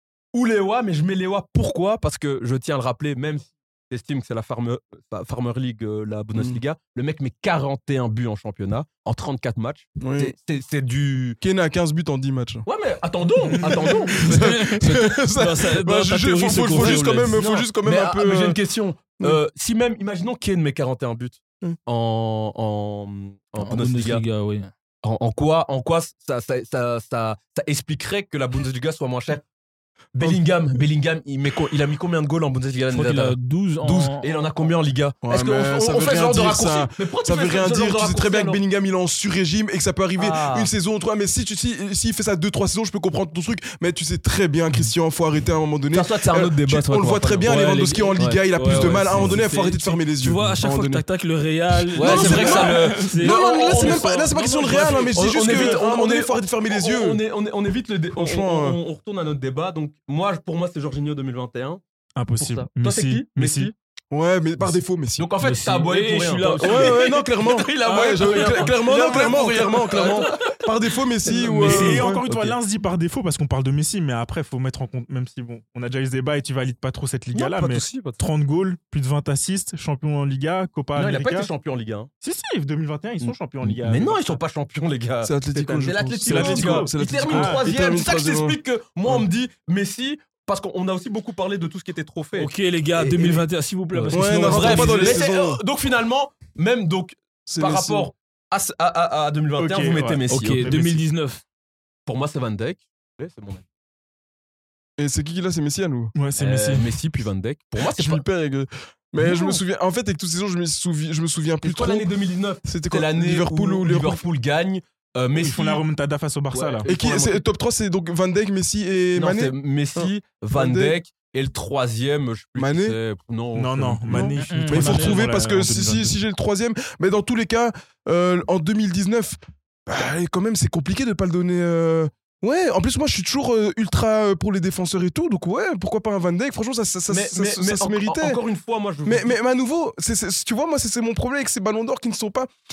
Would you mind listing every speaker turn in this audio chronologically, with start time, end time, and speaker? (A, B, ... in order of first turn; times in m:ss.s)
0:00.3-0:11.4 A
0:06.3-0:06.6 B
0:10.0-0:10.3 B
0:11.4-0:12.6 B
0:12.6-0:14.6 A
0:13.6-0:18.6 B
0:14.2-0:17.4 C
0:17.3-0:24.2 A
0:23.6-0:24.7 C
0:25.0-0:29.4 A
0:30.1-0:38.6 A
0:32.9-0:34.3 C
0:35.2-0:51.0 B
0:40.2-0:40.7 A
0:45.9-0:49.4 A
0:47.4-0:55.6 C
0:51.9-0:54.1 A
0:52.0-0:57.2 B
0:52.0-0:53.1 D
0:55.1-1:01.8 A
0:58.2-0:58.8 B
1:02.2-1:03.7 D
1:02.4-1:03.7 A
1:04.1-1:05.3 B
1:05.2-1:10.4 A
1:05.4-1:07.1 C
1:06.6-1:12.6 B
1:07.8-1:08.7 C
1:11.4-1:12.0 C
1:11.4-1:21.5 D
1:11.6-1:12.0 A
1:17.3-1:18.2 A
1:20.9-1:22.1 A
1:22.2-1:24.3 D
1:23.2-1:40.7 A
1:25.2-1:29.2 B
1:26.2-1:27.6 D
1:32.4-1:35.2 C
1:34.1-1:35.6 B
1:37.5-1:38.1 B
1:39.6-1:41.0 D
1:40.3-1:41.4 C
1:42.0-1:43.6 A
1:45.0-1:46.1 B
1:46.2-1:46.9 D
1:46.4-1:48.2 A
1:47.9-1:52.1 B
1:49.2-1:49.6 A
1:51.6-1:55.8 A
1:52.6-1:54.2 B
1:55.4-1:56.8 D
1:56.5-1:57.4 A
1:56.8-2:01.0 B
1:59.1-2:04.3 A
2:02.6-2:03.0 B
2:03.5-2:06.2 D
2:04.1-2:18.4 B
2:04.4-2:05.2 C
2:17.1-2:19.4 A
2:19.0-2:22.5 B